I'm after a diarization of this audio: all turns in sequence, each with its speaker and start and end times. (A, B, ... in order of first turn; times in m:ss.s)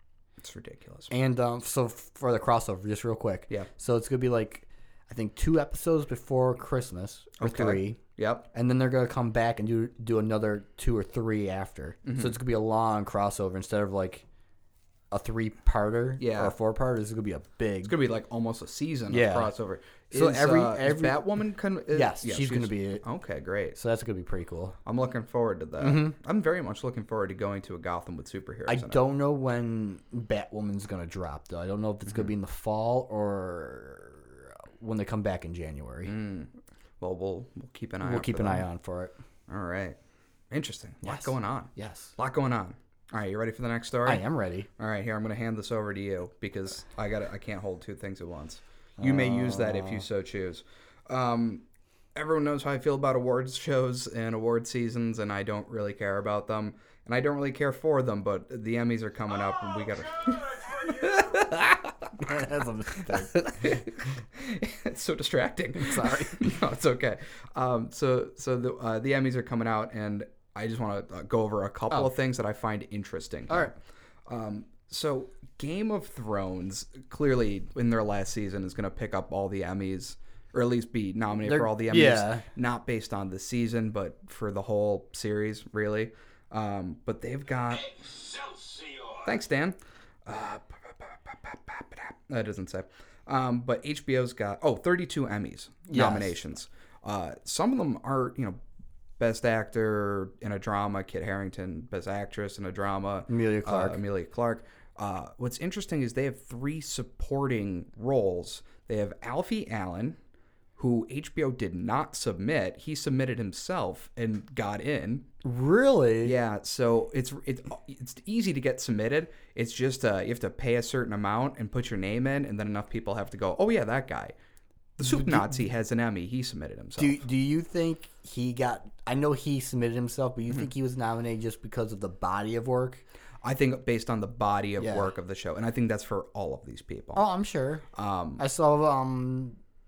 0:00.4-0:01.1 A
0:01.1-0:08.0 B
0:07.4-0:08.5 A
0:08.5-0:14.2 B
0:12.0-0:12.4 A
0:15.1-0:18.0 B
0:16.2-0:16.5 A
0:17.8-0:23.8 A
0:19.1-0:19.5 B
0:20.1-0:21.3 B
0:21.9-0:23.0 B
0:23.7-0:24.8 B
0:24.8-0:29.0 A
0:25.8-0:26.1 B
0:28.7-0:36.1 B
0:36.0-0:38.6 A
0:38.0-0:39.1 B
0:39.5-0:40.0 A
0:40.5-0:44.2 A
0:41.0-0:42.1 B
0:44.0-0:44.7 B
0:44.8-1:02.5 A
0:49.0-0:50.0 B
0:59.5-1:01.3 C
1:02.2-1:03.8 B
1:03.0-1:27.9 A
1:05.7-1:06.6 B
1:21.4-1:22.4 B
1:27.6-1:29.3 C
1:29.2-1:38.6 A
1:35.9-1:36.4 B
1:39.2-1:50.2 A
1:43.3-1:44.0 B
1:50.8-1:55.3 A
1:55.4-1:56.4 B
1:56.2-2:04.3 A
2:05.0-2:07.2 A
2:05.0-2:05.6 B
2:07.0-2:13.0 B
2:13.4-2:17.2 A
2:14.8-2:15.1 B
2:17.1-2:17.8 B
2:17.9-2:18.4 A
2:18.4-2:19.6 B